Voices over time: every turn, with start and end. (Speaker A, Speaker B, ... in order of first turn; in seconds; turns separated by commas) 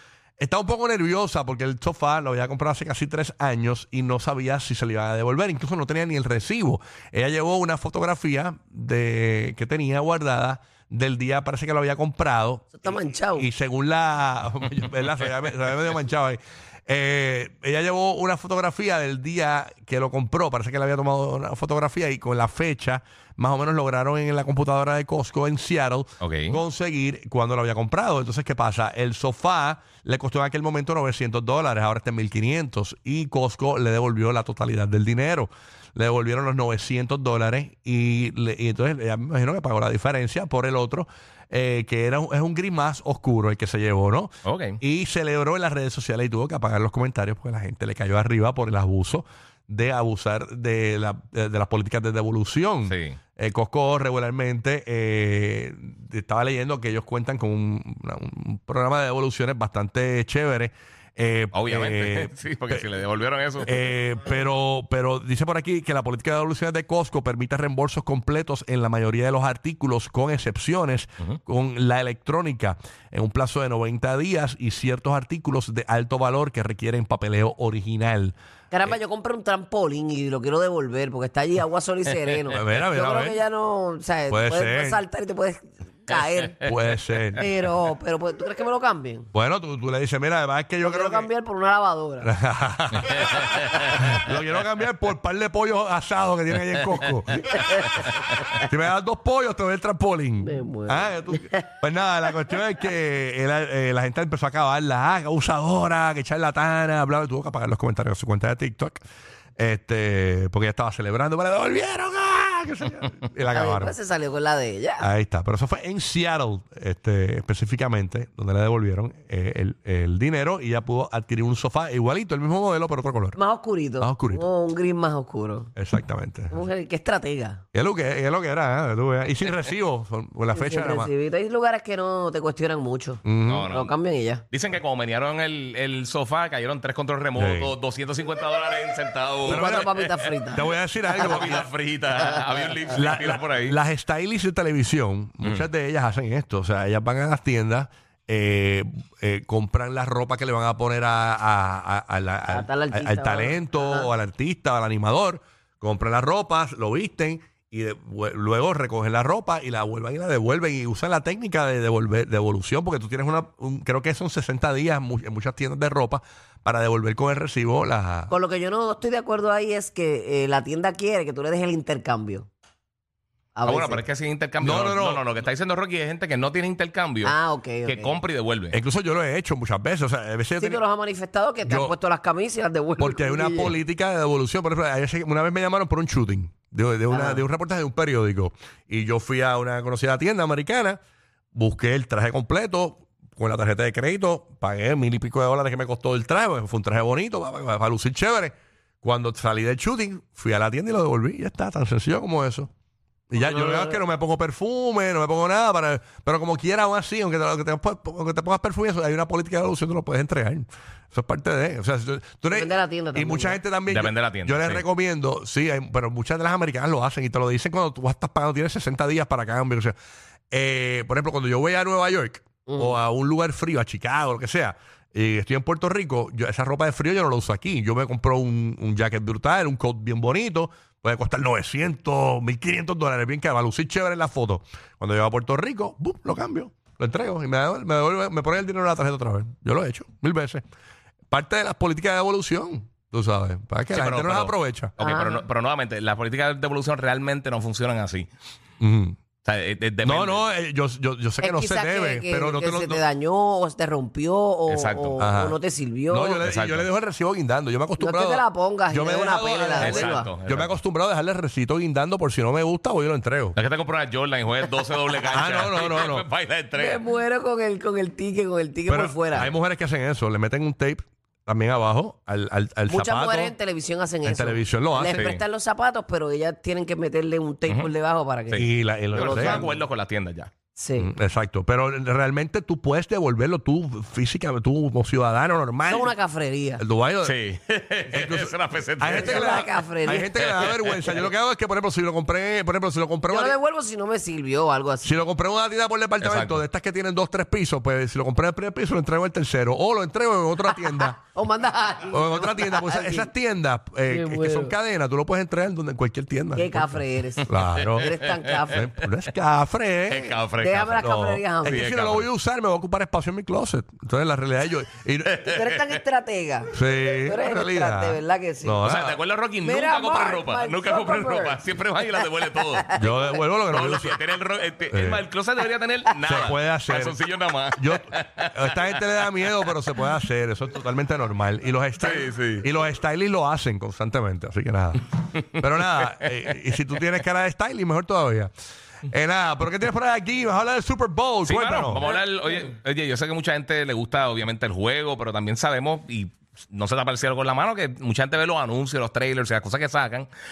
Speaker A: 0.4-62.9, Speaker B: 12.8-13.5, Speaker C: 26.2-26.6, Speaker C: 44.5-44.8, Speaker C: 52.9-53.2, Speaker C: 61.5-63.8, Speaker A: 63.6-78.3, Speaker B: 78.7-86.7, Speaker A: 82.5-83.4, Speaker A: 84.3-85.0, Speaker C: 86.1-86.5, Speaker A: 86.6-87.5, Speaker B: 87.4-89.3, Speaker A: 89.3-91.3, Speaker B: 90.8-92.3, Speaker A: 92.2-97.5, Speaker C: 93.0-94.1, Speaker B: 97.4-98.0, Speaker C: 97.5-98.5, Speaker A: 98.5-109.0, Speaker B: 100.4-101.7, Speaker A: 109.6-113.9, Speaker B: 113.5-115.1, Speaker A: 115.0-123.4, Speaker B: 123.4-125.7, Speaker A: 124.0-124.5, Speaker A: 125.8-126.7, Speaker B: 126.5-127.6, Speaker A: 127.7-131.1, Speaker B: 130.5-134.4, Speaker A: 133.2-133.7, Speaker C: 133.5-134.0, Speaker C: 134.5-140.4, Speaker A: 137.3-137.7, Speaker B: 139.4-141.6, Speaker A: 139.5-141.7, Speaker C: 141.1-143.8, Speaker B: 142.3-142.8, Speaker A: 142.9-168.3, Speaker B: 152.5-154.1, Speaker B: 168.3-172.5, Speaker B: 173.6-174.0, Speaker C: 173.7-178.8, Speaker A: 174.6-175.2, Speaker B: 177.2-178.2, Speaker A: 178.7-180.8, Speaker B: 180.6-183.8, Speaker A: 181.7-181.9, Speaker A: 183.0-191.0, Speaker B: 187.1-187.4, Speaker A: 191.5-202.7, Speaker A: 203.3-219.9, Speaker B: 203.4-204.0, Speaker B: 212.5-213.6, Speaker C: 213.9-214.8, Speaker A: 220.5-240.6, Speaker B: 222.7-223.0, Speaker A: 241.3-244.9, Speaker C: 243.9-248.3, Speaker B: 245.0-245.5, Speaker A: 248.8-249.2, Speaker C: 249.4-250.4, Speaker A: 250.0-253.0, Speaker B: 251.4-256.5, Speaker C: 254.7-255.2, Speaker A: 255.2-255.6, Speaker A: 256.1-263.6, Speaker C: 256.4-256.9, Speaker B: 258.0-260.3, Speaker C: 259.8-260.8, Speaker C: 263.6-267.1, Speaker A: 265.3-266.3, Speaker B: 266.8-269.5, Speaker A: 268.9-273.6, Speaker B: 272.9-279.8, Speaker A: 274.2-275.4, Speaker C: 275.1-275.4, Speaker C: 278.5-280.5, Speaker A: 278.5-279.7, Speaker B: 280.8-281.1, Speaker A: 281.0-286.1, Speaker B: 285.9-286.8, Speaker A: 286.8-287.4, Speaker C: 287.2-289.7, Speaker A: 288.1-293.6, Speaker B: 289.1-290.5, Speaker C: 290.3-291.3, Speaker B: 293.3-295.1, Speaker A: 295.0-301.2, Speaker C: 296.2-296.6, Speaker B: 301.0-303.3, Speaker A: 302.1-310.4, Speaker B: 304.1-304.7, Speaker B: 306.6-308.9, Speaker C: 307.6-308.9, Speaker C: 310.1-311.0, Speaker B: 310.5-311.9, Speaker A: 311.0-315.5, Speaker C: 311.6-312.3, Speaker C: 315.3-315.8, Speaker B: 315.4-318.9, Speaker A: 316.7-319.2, Speaker C: 318.8-322.9, Speaker B: 319.6-323.4, Speaker A: 322.9-324.2, Speaker C: 323.7-329.7, Speaker A: 324.9-325.2, Speaker B: 326.1-326.5, Speaker A: 326.2-327.2, Speaker A: 327.8-338.5, Speaker C: 332.0-332.7, Speaker C: 335.8-336.2, Speaker A: 339.1-342.1, Speaker C: 341.4-350.3